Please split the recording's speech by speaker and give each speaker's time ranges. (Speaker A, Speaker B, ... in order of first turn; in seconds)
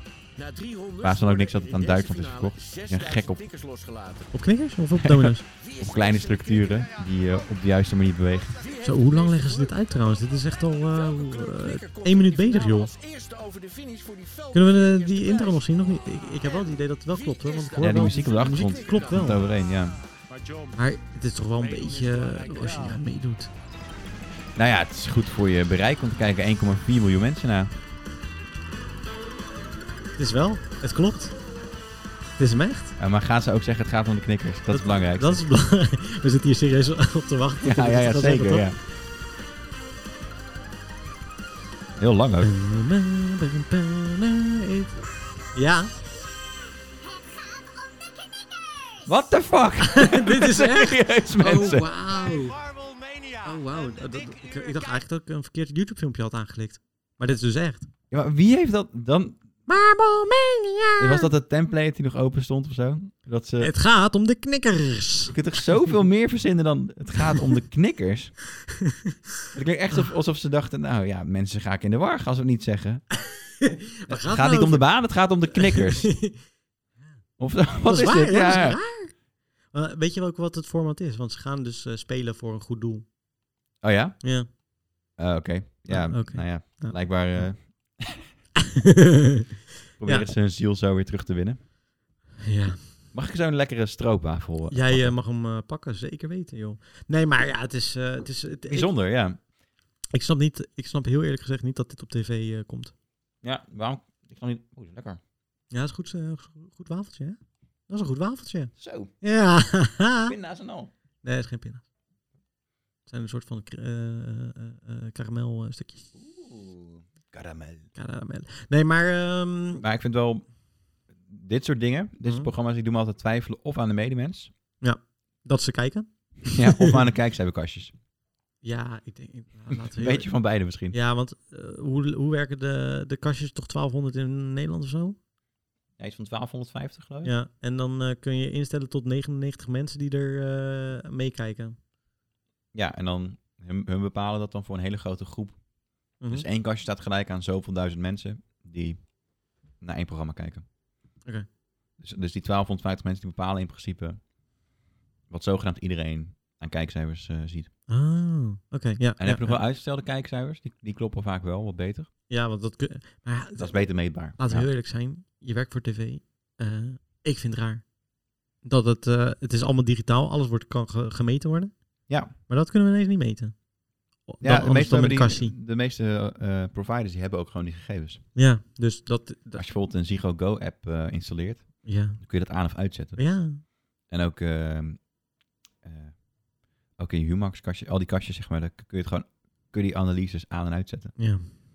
Speaker A: 0.4-4.3, 5.6-6.9, 8.6-10.0, 10.9-19.4, 20.3-20.7, 21.6-22.9
Speaker B: 1.0-3.4, 5.0-8.6, 17.8-20.0, 24.6-27.7, 33.0-35.4, 37.6-38.8, 42.0-42.5, 49.0-51.9, 58.1-59.4, 61.0-63.7, 65.3-68.4, 69.5-73.0, 74.1-76.2, 77.4-78.8, 83.8-84.2, 85.2-88.3, 90.0-91.6, 93.1-95.1, 98.7-99.4, 103.4-105.2, 108.8-109.1, 110.2-110.9, 116.2-117.9, 119.8-120.5, 121.1-124.5, 126.5-127.9, 129.9-130.9, 136.0-137.3, 142.7-145.6, 146.3-149.1, 149.8-150.6, 152.0-154.2, 155.3-157.7, 159.2-162.1, 163.6-164.7, 172.1-172.3, 174.4-178.2, 179.6-183.2, 184.1-185.1, 185.8-186.2, 186.9-191.2
Speaker C: 4.3-5.5, 8.8-12.9, 14.5-19.4, 20.7-23.5, 30.2-31.4, 32.4-33.0, 34.7-38.7, 42.4-45.9, 49.8-52.6, 53.4-57.9, 59.7-61.3, 63.6-65.4, 73.3-75.0, 75.5-76.4, 77.8-79.1, 79.7-83.0, 84.2-84.5, 85.9-87.5, 88.6-89.5, 92.4-93.0, 94.7-98.9, 100.1-102.9, 105.7-107.4, 107.9-110.3, 111.2-111.8, 113.1-116.1, 118.0-119.8, 122.2-122.5, 124.8-127.0, 128.6-130.3, 130.9-135.2, 137.2-141.8, 146.2-146.4, 157.9-159.6, 162.3-167.8, 168.6-171.7, 172.5-173.6, 174.3-175.5, 178.4-179.6, 181.8-182.2, 183.2-183.6, 191.2-191.5